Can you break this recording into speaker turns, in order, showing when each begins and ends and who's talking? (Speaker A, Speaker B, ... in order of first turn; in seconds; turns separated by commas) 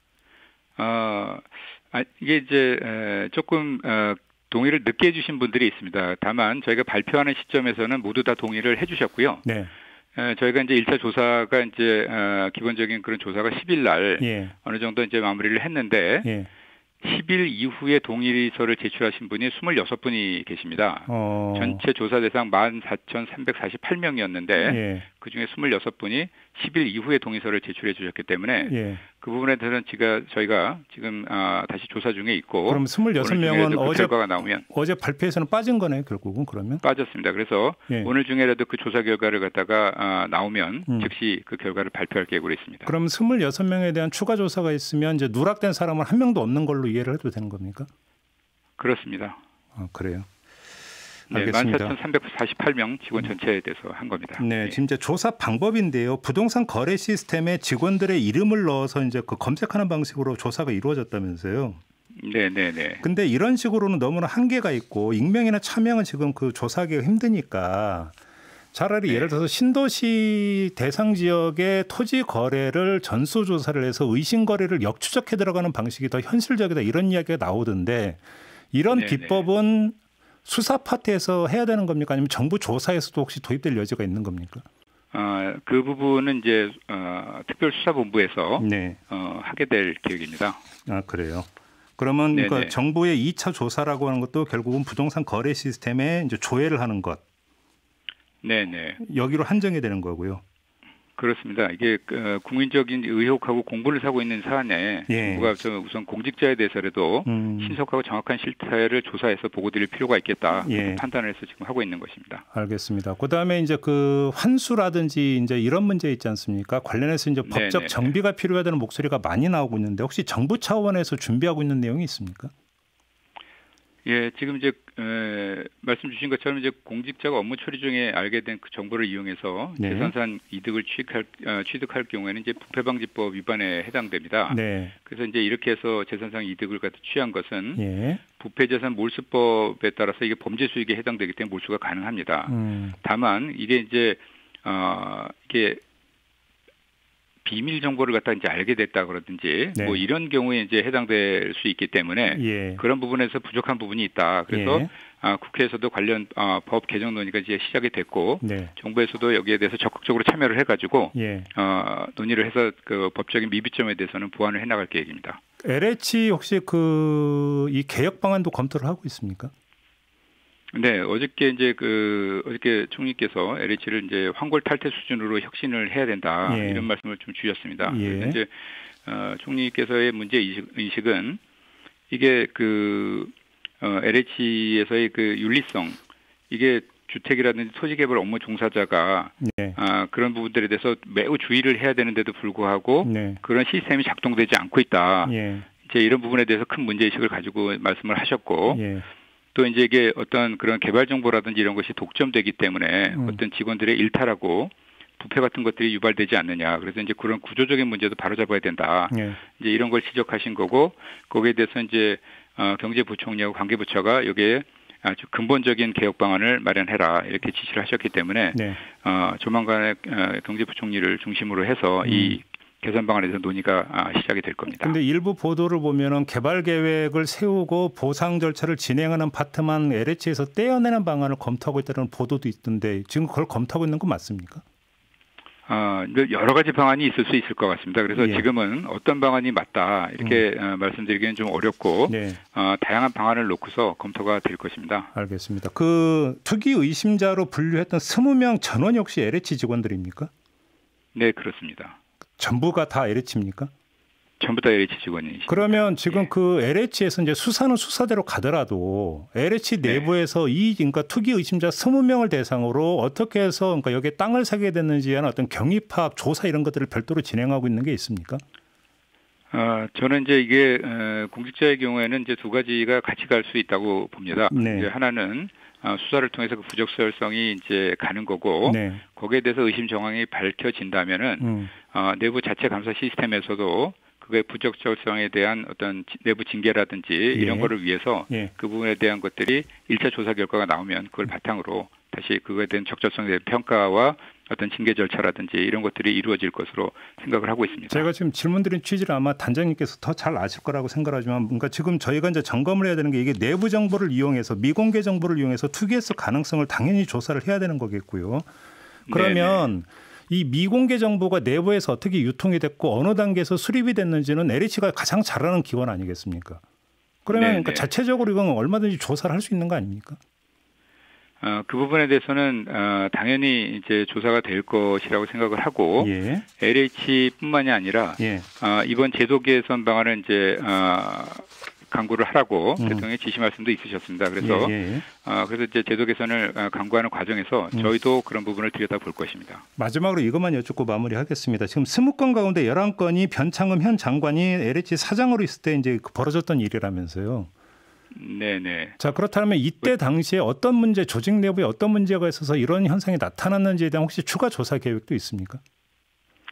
Speaker A: 0.8-9.4, Speaker B: 9.4-9.7, Speaker A: 10.2-16.3, Speaker B: 14.2-14.5, Speaker A: 17.0-34.6, Speaker B: 21.1-21.8, Speaker B: 24.6-25.0, Speaker B: 28.6-29.0, Speaker B: 32.7-36.8, Speaker A: 36.8-42.9, Speaker B: 42.8-47.9, Speaker A: 48.8-49.4, Speaker B: 49.8-50.3, Speaker B: 51.3-52.0, Speaker A: 51.3-54.8, Speaker B: 54.4-61.8, Speaker A: 62.2-63.0, Speaker B: 63.0-68.2, Speaker B: 68.7-78.2, Speaker A: 69.1-69.3, Speaker B: 78.7-84.7, Speaker A: 78.9-79.4, Speaker A: 85.1-90.6, Speaker B: 88.6-89.0, Speaker B: 90.8-97.2, Speaker A: 92.3-92.8, Speaker A: 98.4-99.0, Speaker B: 99.0-100.4, Speaker A: 101.2-112.4, Speaker B: 105.1-105.5, Speaker B: 107.2-107.8, Speaker B: 110.6-111.0, Speaker B: 112.5-122.5, Speaker A: 117.4-118.1, Speaker A: 124.0-137.8, Speaker B: 129.8-130.1, Speaker B: 134.5-134.9, Speaker B: 137.8-138.2, Speaker A: 138.4-145.8, Speaker B: 142.5-142.9, Speaker A: 147.4-165.4, Speaker B: 149.7-150.0, Speaker B: 152.3-152.8, Speaker B: 154.5-154.9, Speaker B: 158.4-158.7, Speaker B: 161.1-161.5, Speaker B: 165.6-169.5, Speaker A: 170.7-178.5, Speaker B: 176.4-176.9, Speaker B: 177.8-178.4, Speaker A: 179.0-181.4, Speaker A: 182.1-186.0, Speaker A: 186.5-198.8, Speaker B: 189.4-189.8, Speaker B: 193.0-193.4, Speaker B: 195.2-195.7, Speaker B: 198.7-199.1, Speaker A: 199.5-224.9, Speaker B: 203.1-203.4, Speaker B: 209.1-209.4, Speaker B: 218.5-218.8, Speaker B: 222.0-222.4, Speaker B: 224.7-234.6, Speaker A: 235.7-245.1, Speaker B: 238.1-238.5, Speaker B: 242.1-242.4, Speaker B: 245.1-250.3, Speaker A: 251.1-252.0, Speaker B: 252.4-253.7, Speaker A: 254.4-256.3, Speaker B: 255.5-268.4, Speaker A: 259.8-260.1, Speaker A: 269.5-298.1, Speaker B: 274.5-274.9, Speaker B: 278.6-279.0, Speaker B: 281.4-281.7, Speaker B: 287.3-287.7, Speaker B: 297.9-308.5, Speaker A: 309.1-309.7, Speaker B: 309.1-316.6, Speaker B: 317.2-320.2, Speaker A: 317.3-317.9, Speaker A: 321.4-339.6, Speaker B: 326.0-326.4, Speaker B: 328.2-328.5, Speaker B: 332.8-333.1, Speaker B: 334.4-335.0, Speaker B: 339.8-347.5, Speaker A: 348.1-349.0, Speaker B: 349.0-355.6